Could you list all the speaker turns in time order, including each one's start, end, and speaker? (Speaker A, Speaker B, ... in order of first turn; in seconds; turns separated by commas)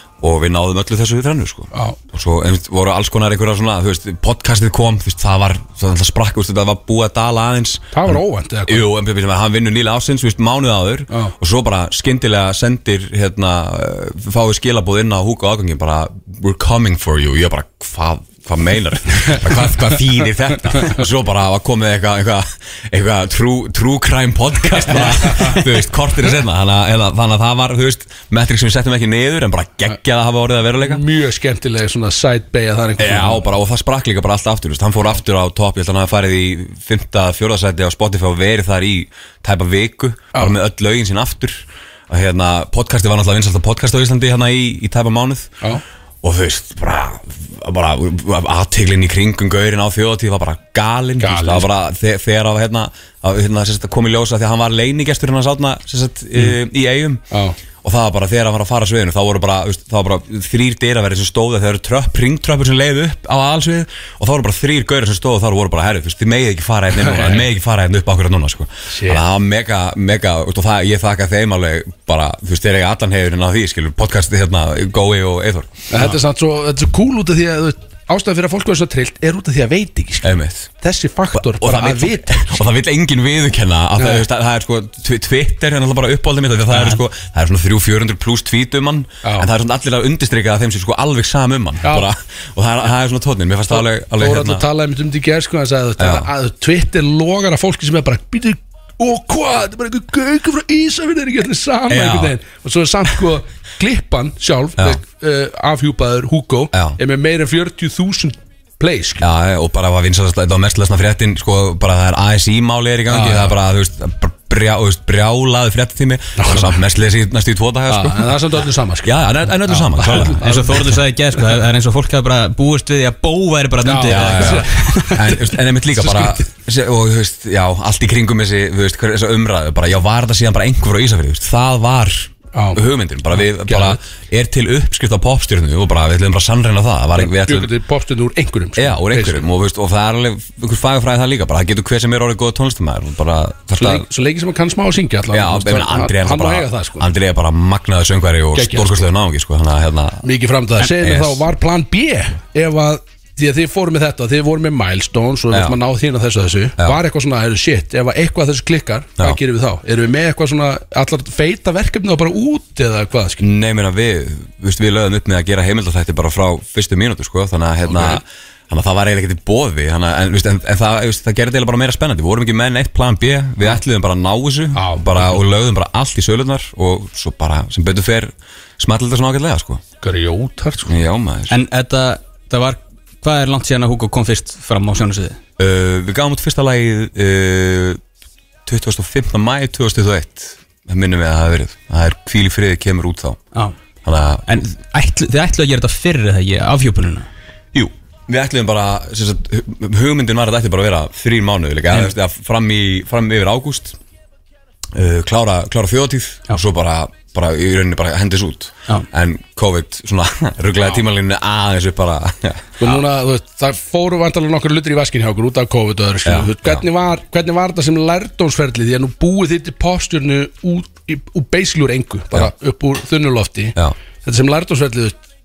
Speaker A: 0.2-31.0, Speaker B: 1.7-2.0, Speaker B: 7.9-8.9, Speaker B: 24.9-25.6, Speaker B: 30.8-33.4, Speaker A: 33.0-45.5, Speaker A: 46.2-57.2, Speaker B: 51.2-51.7, Speaker B: 57.3-57.6, Speaker A: 57.8-75.7, Speaker B: 67.0-67.5, Speaker B: 68.9-69.2, Speaker B: 75.9-82.6, Speaker A: 80.2-80.7, Speaker A: 81.3-94.6, Speaker B: 84.0-84.2, Speaker B: 89.2-89.5, Speaker B: 93.7-109.2, Speaker A: 96.0-96.3, Speaker A: 101.9-102.3, Speaker A: 109.2-118.3, Speaker B: 113.1-113.5, Speaker B: 116.4-116.8, Speaker B: 117.9-121.0, Speaker A: 119.0-120.4, Speaker C: 120.4-125.1, Speaker B: 123.8-125.4, Speaker A: 124.1-137.7, Speaker B: 125.9-126.4, Speaker B: 132.5-134.0, Speaker B: 137.1-139.4, Speaker A: 138.8-144.1, Speaker B: 143.8-147.1, Speaker A: 145.3-150.2, Speaker B: 148.5-149.1, Speaker B: 150.2-163.4, Speaker A: 150.8-151.4, Speaker A: 155.5-155.8, Speaker A: 163.4-179.8, Speaker B: 167.8-168.2, Speaker B: 174.7-175.4, Speaker B: 180.0-180.9, Speaker A: 180.9-181.5, Speaker C: 181.5-185.4, Speaker A: 185.6-188.0, Speaker A: 188.7-193.4, Speaker A: 194.0-194.6, Speaker C: 194.5-197.3, Speaker A: 197.7-203.9, Speaker A: 204.9-213.0, Speaker B: 212.8-225.2, Speaker A: 216.2-216.8